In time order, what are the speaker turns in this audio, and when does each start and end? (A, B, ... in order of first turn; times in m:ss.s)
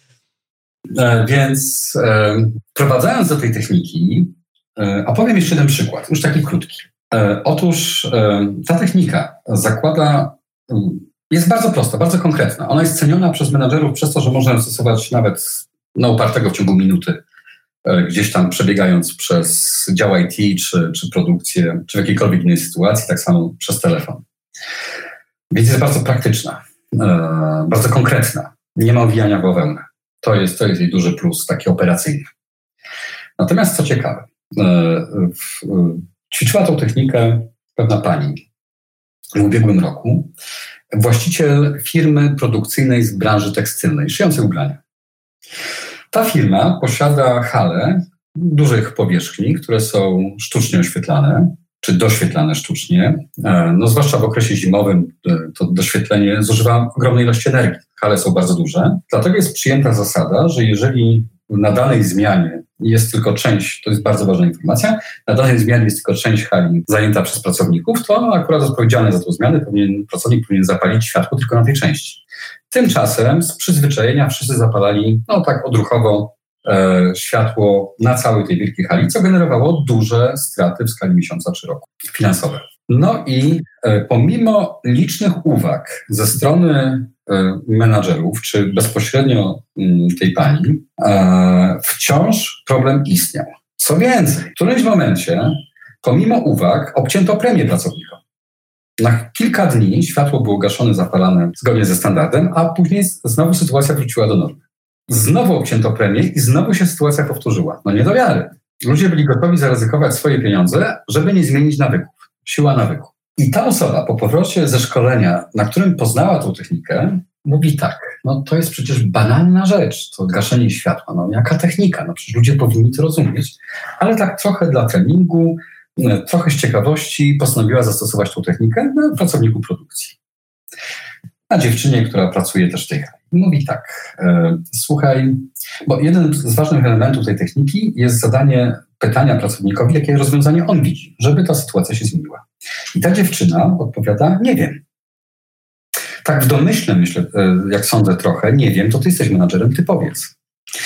0:00.9-0:17.2 A
0:17.8-0:24.2 A
0:25.5-0:32.3 A
0:33.4-0:38.4 A
0:39.4-0:40.3 A
0:40.9-0:44.8 A
0:46.1-1:38.2 A
1:39.0-2:10.2 A
2:11.5-2:24.8 A
2:26.2-2:30.3 A